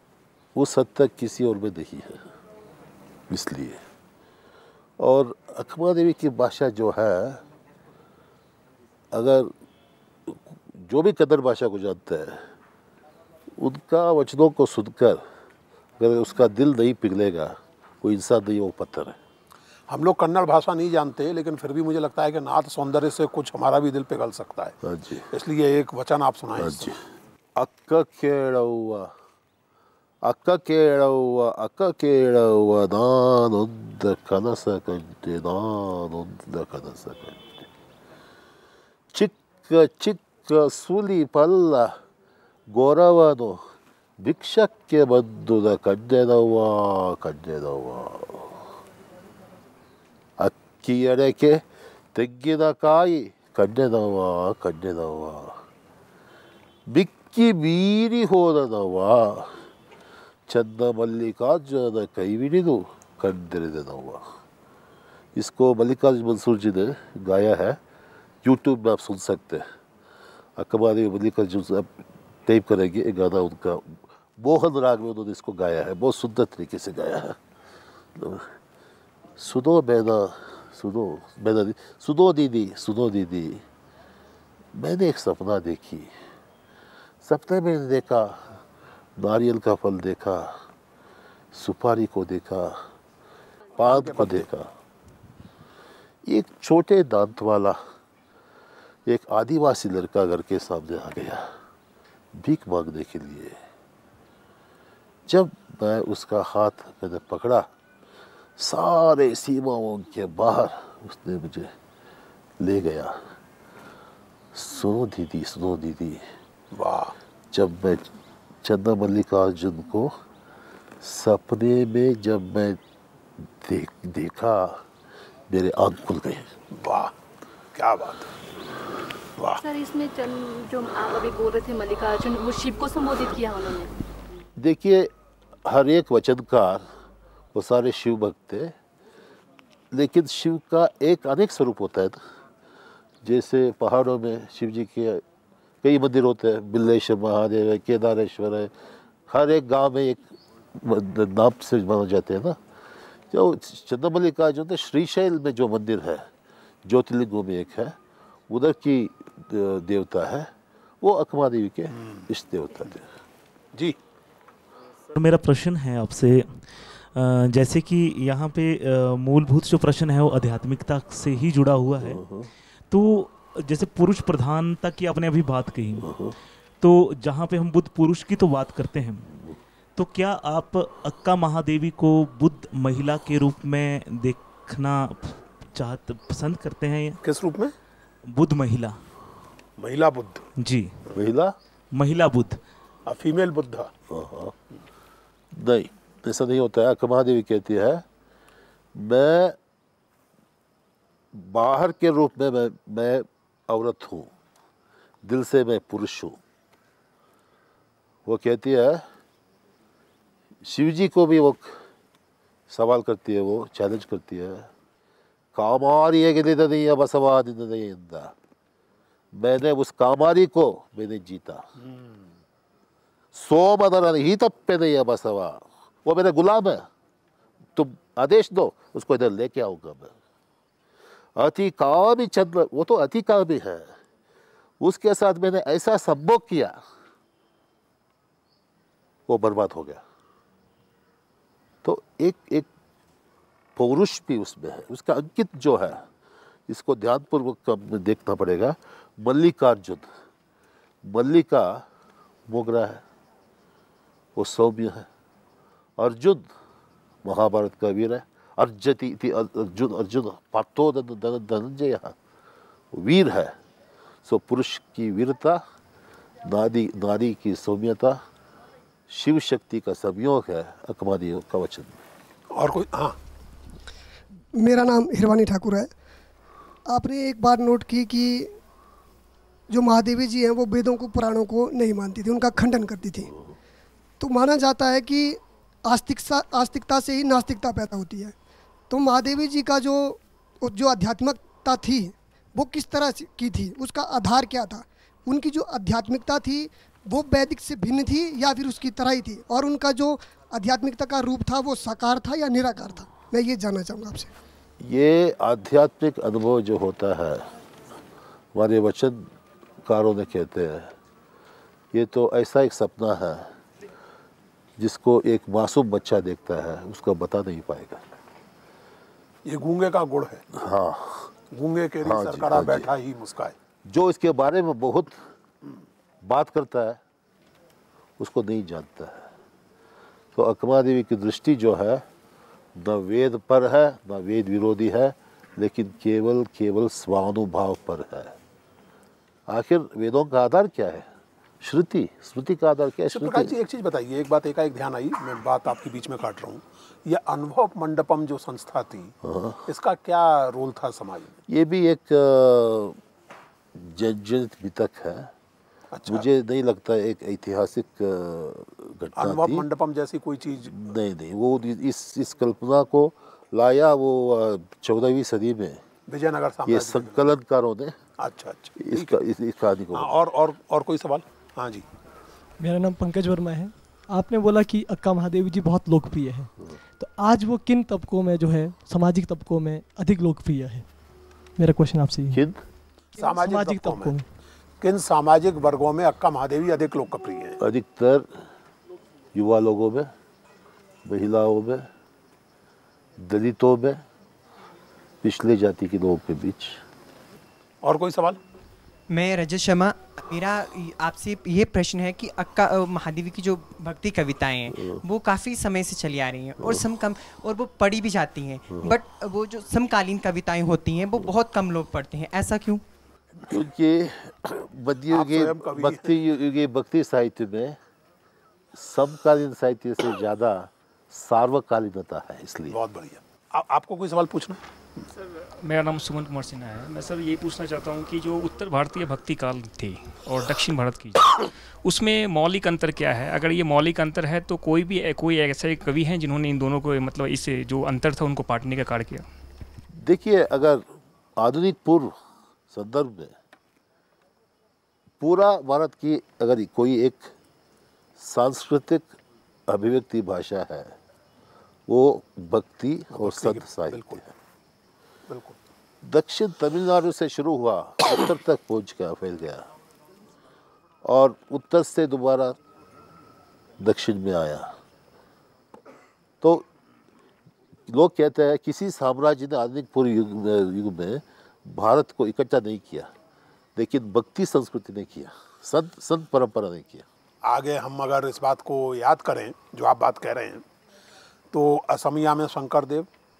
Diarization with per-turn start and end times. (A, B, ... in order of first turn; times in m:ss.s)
0:00.5-0:02.3 A
0:03.3-0:03.8 A
0:05.0-0:07.4 A
0:09.1-0:09.5 A
0:10.3-0:12.5 A
0:13.6-0:15.2 A
0:16.0-0:19.2 A
0:19.9-0:24.8 B
0:24.8-0:25.3 A
0:25.3-0:26.9 B
0:26.6-0:27.0 A
0:27.6-0:29.1 A
0:30.2-0:37.7 A
0:39.1-0:42.0 A
0:42.7-0:43.6 A
0:44.2-0:48.6 A
0:50.4-0:55.6 A
0:56.9-0:59.6 A
1:00.5-1:04.3 A
1:05.3-1:07.8 A
1:08.4-1:09.7 A
1:10.6-1:17.4 A
1:18.2-1:18.5 A
1:19.4-1:23.6 A
1:24.7-1:26.2 A
1:27.2-1:28.6 A
1:29.2-1:30.6 A
1:31.5-1:32.8 A
1:33.8-1:34.7 A
1:33.8-1:34.5 B
1:36.2-1:37.8 A
1:39.0-1:41.5 A
1:42.3-1:43.6 A
1:45.3-1:47.7 A
1:48.6-1:51.7 A
1:52.6-1:53.3 A
1:54.5-1:56.3 A
1:56.7-1:57.1 B
1:57.5-1:58.0 A
1:58.6-2:00.1 A
2:01.0-2:02.8 A
2:03.4-2:04.8 A
2:05.5-2:06.5 A
2:06.7-2:07.1 B
2:07.7-2:08.3 B
2:09.6-2:13.9 C
2:14.6-2:15.1 A
2:15.6-2:16.9 A
2:17.5-2:18.7 A
2:19.9-2:22.2 A
2:23.2-2:25.2 A
2:25.8-2:28.7 A
2:29.3-2:32.6 A
2:33.3-2:36.3 A
2:36.8-2:38.0 A
2:38.5-2:43.1 A
2:41.9-2:42.2 B
2:45.1-2:52.3 D
2:52.2-2:52.4 A
2:52.9-2:56.2 D
2:56.8-2:59.3 D
3:00.0-3:07.2 D
3:07.2-3:07.7 B
3:08.3-3:09.0 D
3:09.8-3:10.5 B
3:10.6-3:11.0 D
3:11.1-3:11.6 A
3:11.9-3:12.6 D
3:13.1-3:13.9 B
3:14.1-3:14.5 A
3:15.5-3:18.0 A
3:18.9-3:19.6 A
3:21.3-3:24.3 A
3:25.2-3:26.4 A
3:28.2-3:29.0 A
3:30.6-3:31.8 A
3:32.7-3:34.7 A
3:35.5-3:38.3 A
3:39.3-3:41.7 A
3:43.3-3:46.9 A
3:47.7-3:50.1 A
3:51.4-3:54.0 A
3:54.8-3:56.8 A
3:59.3-4:00.0 A
4:01.8-4:02.7 A
4:03.8-4:06.0 A
4:06.7-4:10.1 A
4:11.0-4:11.8 A
4:12.5-4:13.0 A
4:14.4-4:15.1 A
4:16.0-4:16.5 A
4:17.2-4:22.1 A
4:22.9-4:23.6 A
4:24.2-4:25.6 A
4:26.4-4:28.2 A
4:29.1-4:32.0 A
4:32.5-4:33.2 B
4:34.6-4:35.9 E
4:36.9-4:38.5 E
4:39.7-4:43.3 E
4:44.2-4:48.3 E
4:48.9-5:04.3 E
5:04.8-5:07.5 A
5:08.5-5:09.3 A
5:09.8-5:10.9 A
5:11.9-5:13.5 A
5:14.8-5:18.2 A
5:19.4-5:20.4 B
5:20.5-5:21.3 A
5:21.5-5:23.5 B
5:22.0-5:22.9 A
5:23.8-5:25.2 A
5:26.2-5:27.0 A
5:28.2-5:29.3 A
5:30.3-5:32.0 A
5:32.8-5:38.4 A
5:39.5-5:41.1 A
5:41.6-5:43.5 A
5:43.1-5:49.1 B
5:49.2-5:49.6 A
5:49.6-5:51.4 B
5:51.5-5:53.0 A
5:53.7-5:55.3 A
5:55.9-5:56.3 B
5:56.1-5:59.6 A
5:59.2-6:00.7 B
6:00.6-6:05.8 A
6:06.1-6:07.2 B
6:06.7-6:08.0 A
6:08.2-6:09.2 B
6:08.8-6:10.2 A
6:09.9-6:11.8 B
6:12.6-6:20.8 F
6:21.6-6:22.4 F
6:22.3-6:22.6 A
6:23.1-6:24.2 B
6:23.2-6:24.2 F
6:24.8-6:27.6 B
6:27.6-6:28.3 A
6:29.3-6:30.1 A
6:31.0-6:31.9 A
6:33.2-6:34.0 A
6:35.2-6:36.8 A
6:37.8-6:38.4 B
6:39.1-6:52.8 G
6:44.7-6:45.0 A
6:53.4-6:57.8 A
6:55.1-6:56.1 B
6:58.7-7:02.8 A
7:02.7-7:04.6 B
7:05.6-7:19.2 H
7:20.0-7:20.8 A
7:21.4-7:22.2 A
7:22.7-7:23.3 A
7:25.2-7:27.3 A
7:28.2-7:29.1 A
7:29.7-7:31.0 A
7:31.9-7:34.3 A
7:33.1-7:34.2 B
7:35.3-7:35.6 B
7:36.0-7:39.7 A
7:41.0-7:42.6 A
7:43.8-7:44.7 A
7:46.4-7:46.6 A
7:47.9-7:53.1 A
7:53.8-7:57.0 A
7:57.4-8:00.6 B
8:01.5-8:03.1 B